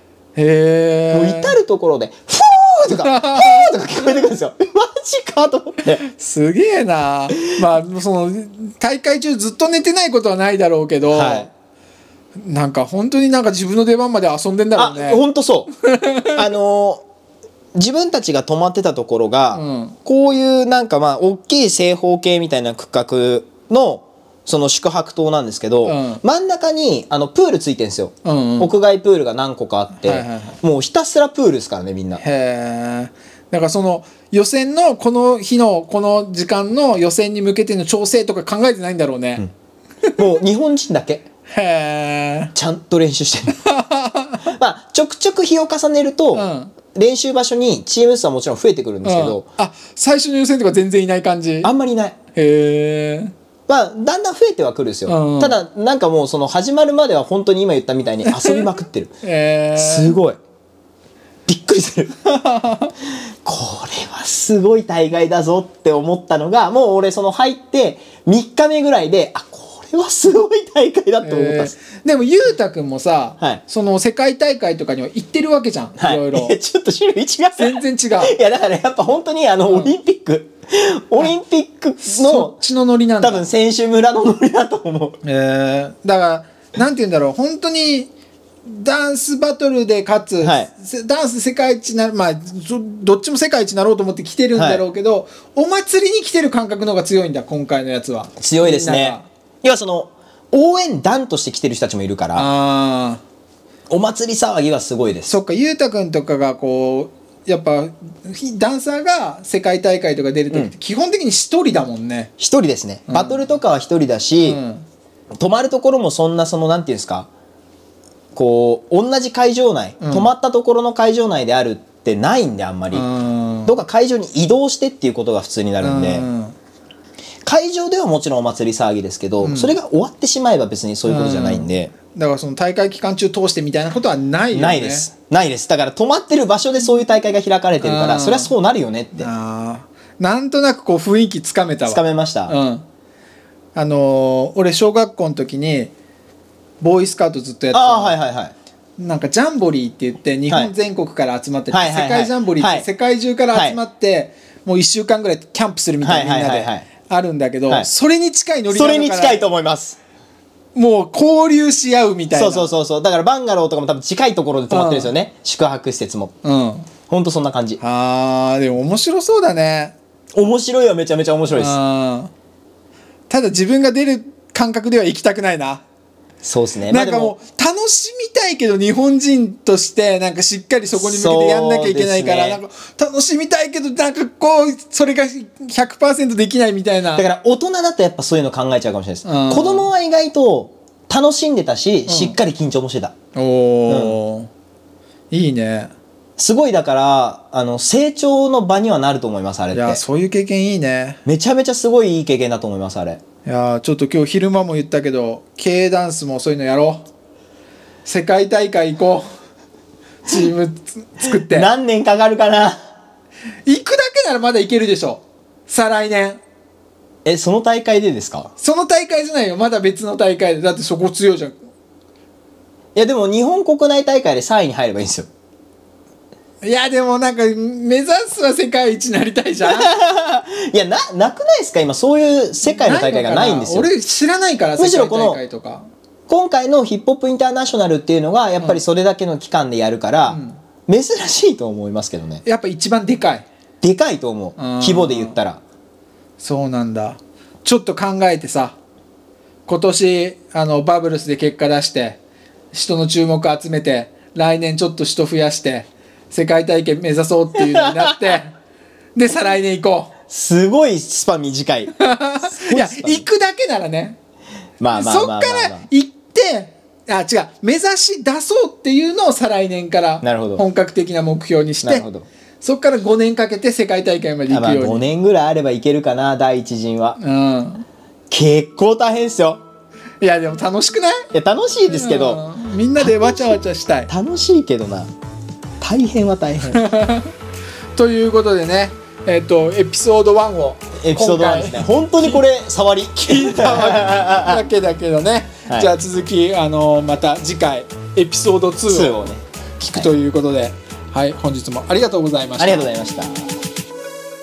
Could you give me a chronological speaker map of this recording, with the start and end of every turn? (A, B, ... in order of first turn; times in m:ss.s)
0:00.3-0:01.6 A
0:01.1-0:06.0 B
0:02.9-0:04.2 A
0:06.0-0:11.5 A
0:11.1-0:11.5 B
0:12.3-0:16.4 A
0:14.8-0:15.7 B
0:16.3-0:17.0 B
0:17.7-0:32.2 B
0:19.5-0:20.0 A
0:25.8-0:26.2 A
0:28.2-0:28.7 A
0:30.0-0:30.6 A
0:32.2-0:39.4 A
0:40.1-0:41.2 B
0:41.5-0:42.5 A
0:42.5-0:43.6 B
0:43.5-0:44.5 A
0:44.4-0:49.4 B
0:46.3-0:46.7 A
0:49.0-0:51.7 A
0:51.6-0:52.2 B
0:52.3-0:53.3 A
0:53.7-0:59.1 B
0:55.0-0:55.6 A
0:58.2-0:58.7 A
0:59.2-1:00.2 A
0:59.8-1:00.4 B
1:01.5-1:02.1 B
1:02.2-1:02.9 A
1:03.4-1:11.7 B
1:11.2-1:16.6 A
1:16.0-1:22.6 B
1:17.6-1:18.4 A
1:19.7-1:19.9 A
1:22.0-1:23.4 A
1:23.2-1:25.2 B
1:25.2-1:28.1 A
1:28.6-1:39.2 A
1:30.4-1:30.7 B
1:34.5-1:34.8 B
1:38.4-1:42.5 B
1:42.4-1:43.2 A
1:43.9-1:45.4 B
1:45.3-1:52.3 A
1:52.4-1:54.6 B
1:53.1-1:53.4 A
1:54.4-1:54.8 A
1:55.4-1:57.3 B
1:58.3-2:03.0 B
2:00.0-2:00.3 A
2:02.9-2:03.8 A
2:03.6-2:06.2 B
2:05.8-2:06.5 A
2:07.4-2:11.9 B
2:09.4-2:09.8 A
2:11.0-2:15.1 A
2:14.5-2:19.3 B
2:17.8-2:18.5 A
2:19.2-2:22.8 A
2:21.9-2:22.5 B
2:23.7-2:25.9 A
2:26.8-2:28.1 A
2:27.7-2:28.5 B
2:29.0-2:39.4 A
2:31.7-2:32.8 B
2:33.5-2:33.8 B
2:36.0-2:36.8 B
2:38.7-2:40.0 B
2:40.7-2:42.7 A
2:42.3-2:46.3 B
2:44.7-2:45.1 A
2:46.4-2:46.9 A
2:47.1-2:47.8 B
2:47.8-2:49.9 A
2:50.4-2:51.8 B
2:51.5-2:52.3 A
2:53.3-2:55.8 A
2:56.4-2:57.3 B
2:56.9-3:07.2 A
3:00.9-3:02.6 B
3:07.1-3:13.1 B
3:09.2-3:09.9 A
3:12.1-3:12.4 A
3:13.3-3:14.5 A
3:13.9-3:14.2 B
3:15.3-3:15.9 A
3:16.4-3:20.0 B
3:19.7-3:21.2 A
3:21.2-3:23.2 B
3:23.4-3:27.0 A
3:28.0-3:29.3 A
3:30.2-3:31.7 A
3:31.3-3:32.8 B
3:33.6-3:36.4 A
3:37.2-3:38.5 B
3:38.6-3:41.6 A
3:43.0-3:45.3 B
3:46.6-3:49.9 A
3:49.6-3:53.9 B
3:52.6-3:55.9 A
3:54.8-3:55.4 B
3:56.3-4:02.4 B
4:00.3-4:00.6 A
4:02.4-4:03.4 A
4:03.8-4:05.6 B
4:04.6-4:05.4 A
4:06.4-4:08.8 A
4:09.7-4:12.2 A
4:12.7-4:18.5 A
4:17.7-4:18.2 B
4:19.1-4:20.1 A
4:20.3-4:23.2 B
4:22.0-4:24.2 A
4:24.8-4:25.8 B
4:24.9-4:32.1 A
4:30.2-4:30.6 B
4:31.8-4:32.2 B
4:32.6-4:35.1 A
4:34.5-4:37.2 B
4:37.2-4:37.8 A
4:38.3-4:39.6 B
4:40.2-4:41.2 A
4:41.3-4:42.4 B
4:41.9-4:44.1 A
4:43.0-4:43.6 B
4:44.1-4:45.1 B
4:45.8-4:46.8 B
4:46.7-4:47.3 A
4:47.9-4:52.4 A
4:51.0-4:54.6 B
4:53.2-4:59.2 A
4:55.7-4:55.9 B
4:58.9-5:00.1 B
4:59.8-5:02.9 A
5:02.6-5:03.4 B